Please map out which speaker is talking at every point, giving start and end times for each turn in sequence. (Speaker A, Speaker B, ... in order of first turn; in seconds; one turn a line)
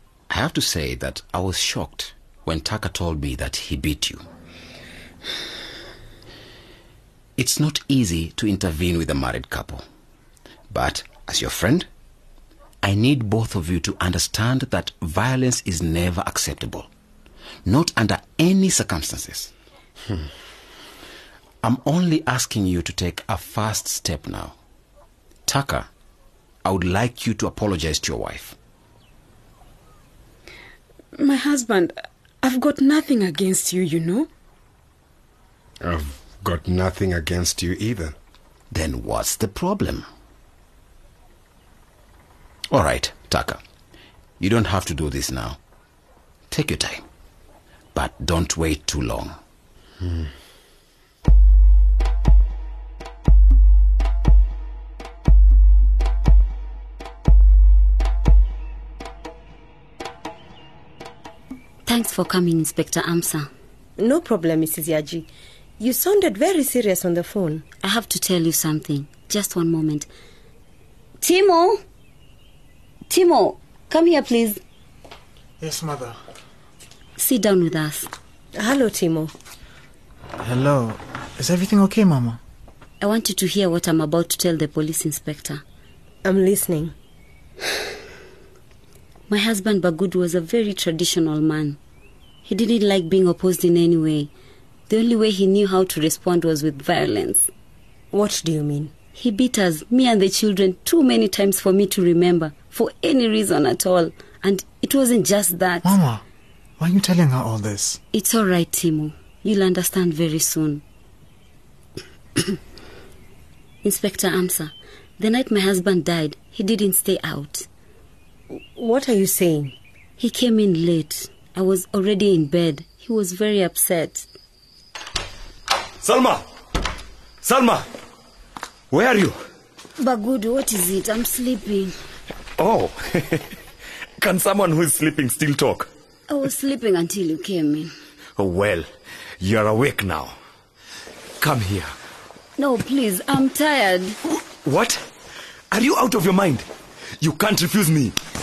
Speaker A: 0.3-4.2
Speaker A: 7.4-9.8
Speaker A: 10.7-11.9
Speaker A: 12.8-16.9
Speaker A: 17.6-19.5
Speaker A: 21.6-24.5
Speaker A: 25.4-25.9
Speaker A: 26.6-28.6
Speaker B: 31.1-34.3
Speaker C: 35.8-38.1
Speaker A: 38.7-40.0
Speaker A: 42.7-43.6
Speaker A: 44.4-45.6
Speaker A: 46.5-47.0
Speaker A: 47.9-49.4
Speaker D: 61.9-63.5
Speaker E: 64.0-65.3
Speaker E: 65.8-67.6
Speaker D: 67.8-70.1
Speaker D: 71.2-71.8
Speaker D: 73.1-74.6
Speaker F: 75.6-76.2
Speaker D: 77.2-78.1
Speaker E: 78.6-79.3
Speaker F: 80.4-82.4
Speaker D: 83.0-85.6
Speaker E: 86.2-86.9
Speaker D: 89.3-91.8
Speaker D: 92.5-94.3
Speaker D: 94.9-97.5
Speaker E: 98.1-98.9
Speaker D: 99.1-105.9
Speaker F: 105.8-106.2
Speaker F: 106.8-108.0
Speaker D: 108.1-110.8
Speaker D: 113.8-117.7
Speaker E: 118.5-119.7
Speaker D: 120.2-124.3
Speaker G: 126.0-126.4
Speaker G: 127.4-127.9
Speaker G: 128.9-129.4
Speaker D: 130.0-131.9
Speaker G: 132.6-133.5
Speaker G: 134.2-135.9
Speaker D: 136.3-137.9
Speaker G: 138.4-138.9
Speaker G: 139.4-140.3
Speaker G: 141.4-141.9
Speaker D: 142.6-144.2
Speaker G: 144.6-145.0
Speaker G: 145.7-146.7
Speaker G: 147.2-148.1